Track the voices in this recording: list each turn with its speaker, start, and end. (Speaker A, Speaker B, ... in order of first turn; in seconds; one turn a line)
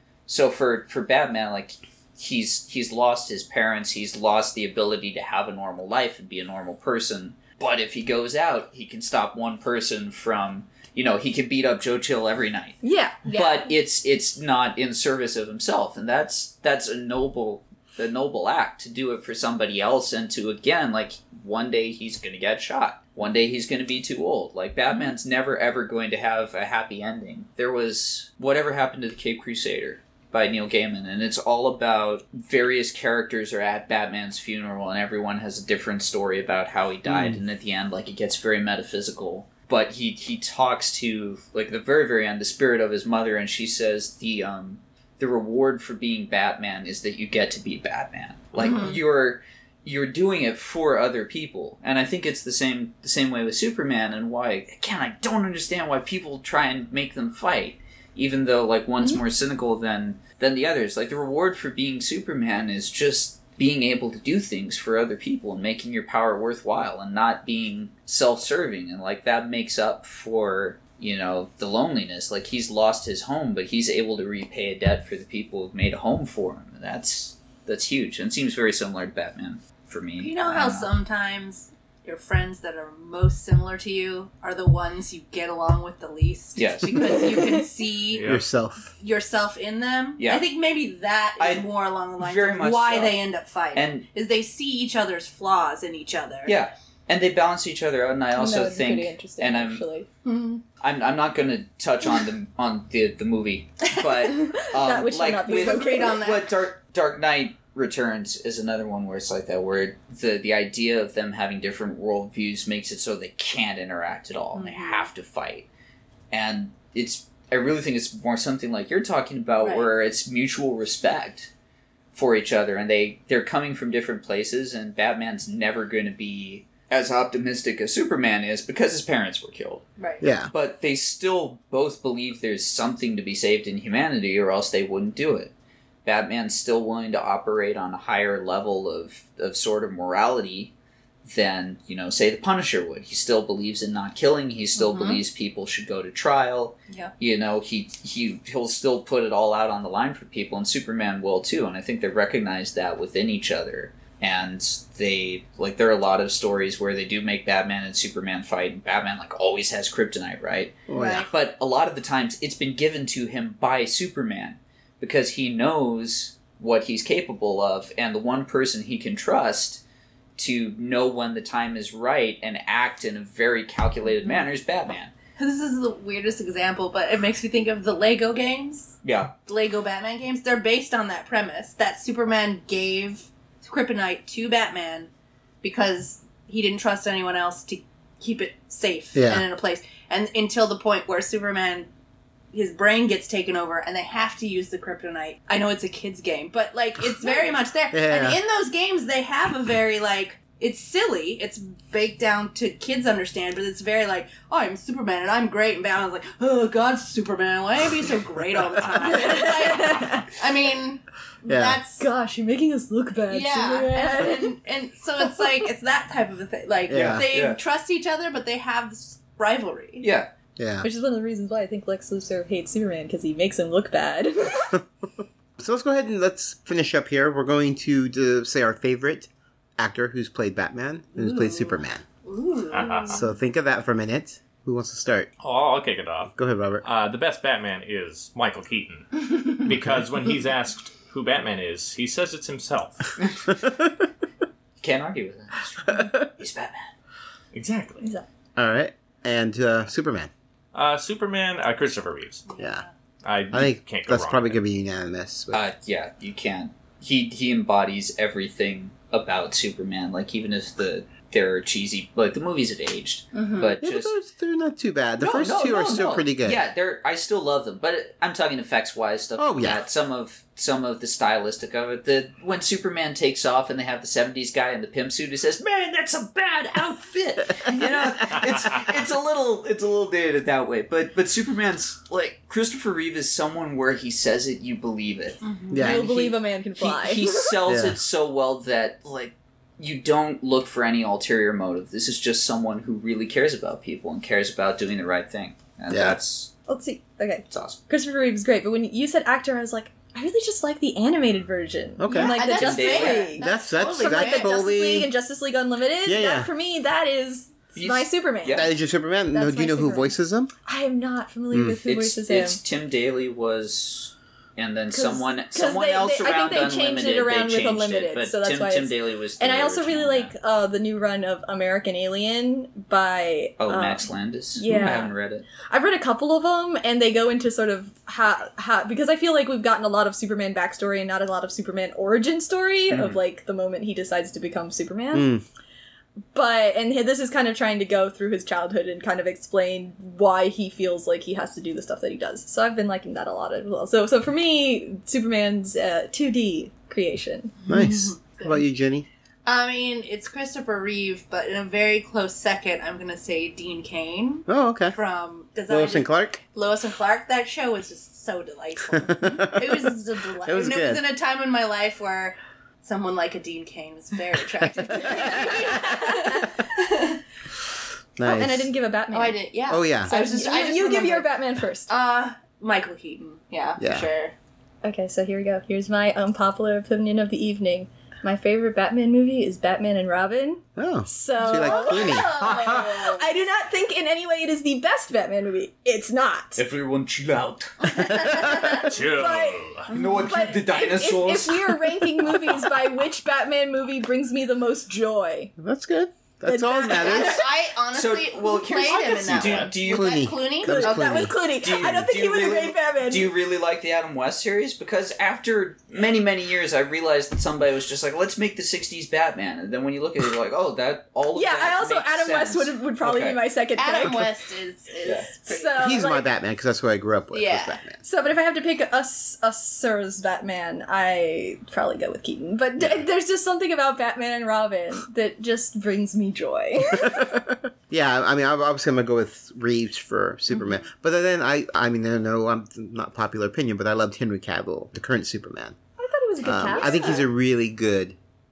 Speaker A: 0.3-80.9
Speaker B: 12.8-13.2
Speaker C: 13.2-13.7
Speaker D: 37.0-37.4
Speaker C: 48.5-49.0
Speaker C: 80.2-88.3
Speaker A: 86.5-87.3
Speaker E: 88.1-88.4
Speaker D: 88.2-88.9
Speaker C: 89.0-96.6
Speaker A: 90.2-90.4
Speaker A: 91.4-93.2
Speaker A: 93.7-94.1
Speaker A: 96.5-99.8
Speaker B: 98.3-100.1
Speaker C: 100.2-100.6
Speaker A: 100.8-115.7
Speaker B: 104.6-106.2
Speaker C: 105.4-106.6
Speaker C: 114.5-115.1
Speaker A: 116.3-121.5
Speaker C: 119.6-119.9
Speaker A: 122.1-129.8
Speaker C: 130.0-130.2
Speaker D: 130.2-130.5
Speaker A: 130.5-135.5
Speaker A: 136.0-140.7
Speaker A: 141.2-169.8
Speaker C: 144.8-145.2
Speaker D: 160.9-161.3
Speaker C: 160.9-161.3
Speaker A: 170.4-175.1
Speaker C: 175.4-178.9
Speaker A: 179.0-179.3
Speaker C: 179.4-185.1
Speaker C: 185.6-191.9
Speaker D: 189.1-189.4
Speaker C: 192.5-212.1
Speaker D: 197.9-198.4
Speaker B: 209.1-210.3
Speaker D: 211.5-211.8
Speaker B: 212.0-214.5
Speaker C: 213.3-220.1
Speaker D: 216.9-217.2
Speaker A: 216.9-217.6
Speaker A: 220.0-220.3
Speaker D: 220.6-220.9
Speaker B: 220.8-224.8
Speaker D: 225.6-232.0
Speaker C: 231.2-233.2
Speaker E: 232.7-233.2
Speaker D: 233.1-235.3
Speaker E: 235.4-243.1
Speaker D: 236.3-236.8
Speaker A: 244.8-246.9
Speaker E: 247.5-248.1
Speaker D: 248.6-250.3
Speaker E: 250.7-252.4
Speaker C: 252.5-252.9
Speaker D: 252.6-252.8
Speaker E: 253.2-254.6
Speaker D: 253.5-255.6
Speaker A: 255.5-264.1
Speaker C: 263.3-263.8
Speaker D: 263.8-266.6
Speaker A: 265.2-296.5
Speaker D: 269.4-269.8
Speaker C: 285.4-286.0
Speaker D: 285.7-286.0
Speaker B: 285.8-287.5
Speaker D: 287.6-288.0
Speaker D: 295.9-296.2
Speaker B: 296.7-308.7
Speaker A: 297.5-297.8
Speaker D: 302.0-302.6
Speaker C: 302.1-304.6
Speaker A: 302.5-303.3
Speaker D: 303.4-305.1
Speaker D: 306.0-306.5
Speaker A: 307.8-308.7
Speaker D: 308.4-310.5
Speaker B: 309.3-310.1
Speaker B: 310.6-312.6
Speaker D: 311.5-311.8
Speaker A: 311.9-320.3
Speaker B: 314.9-324.0
Speaker A: 323.6-325.5
Speaker B: 324.6-335.3
Speaker A: 332.9-333.2
Speaker D: 335.1-335.4
Speaker B: 336.3-347.6
Speaker C: 347.6-348.6
Speaker D: 347.7-349.1
Speaker C: 349.4-367.2
Speaker D: 354.5-355.0
Speaker D: 355.7-356.4
Speaker D: 358.9-361.1
Speaker D: 364.6-366.0
Speaker B: 365.9-366.4
Speaker D: 368.2-368.7
Speaker B: 368.2-369.4
Speaker C: 369.1-374.3
Speaker D: 369.7-370.1
Speaker B: 370.1-371.9
Speaker D: 373.8-374.1
Speaker B: 374.8-386.6
Speaker D: 380.8-382.4
Speaker C: 381.5-383.3
Speaker A: 386.6-388.3
Speaker C: 387.8-388.8
Speaker B: 388.5-395.5
Speaker E: 388.8-389.9
Speaker A: 389.9-391.9
Speaker D: 395.6-397.4
Speaker B: 396.4-397.3
Speaker C: 396.9-401.3
Speaker A: 397.9-400.3
Speaker E: 399.4-399.7
Speaker D: 399.8-401.4
Speaker B: 400.7-403.3
Speaker A: 401.6-413.4
Speaker B: 411.4-414.3
Speaker C: 413.8-415.8
Speaker B: 415.4-416.3
Speaker D: 415.8-418.0
Speaker C: 417.3-417.8
Speaker B: 418.0-427.4
Speaker D: 422.8-423.0
Speaker D: 426.9-435.8
Speaker C: 430.5-430.9
Speaker B: 436.0-437.2
Speaker D: 436.4-438.2
Speaker C: 436.6-437.2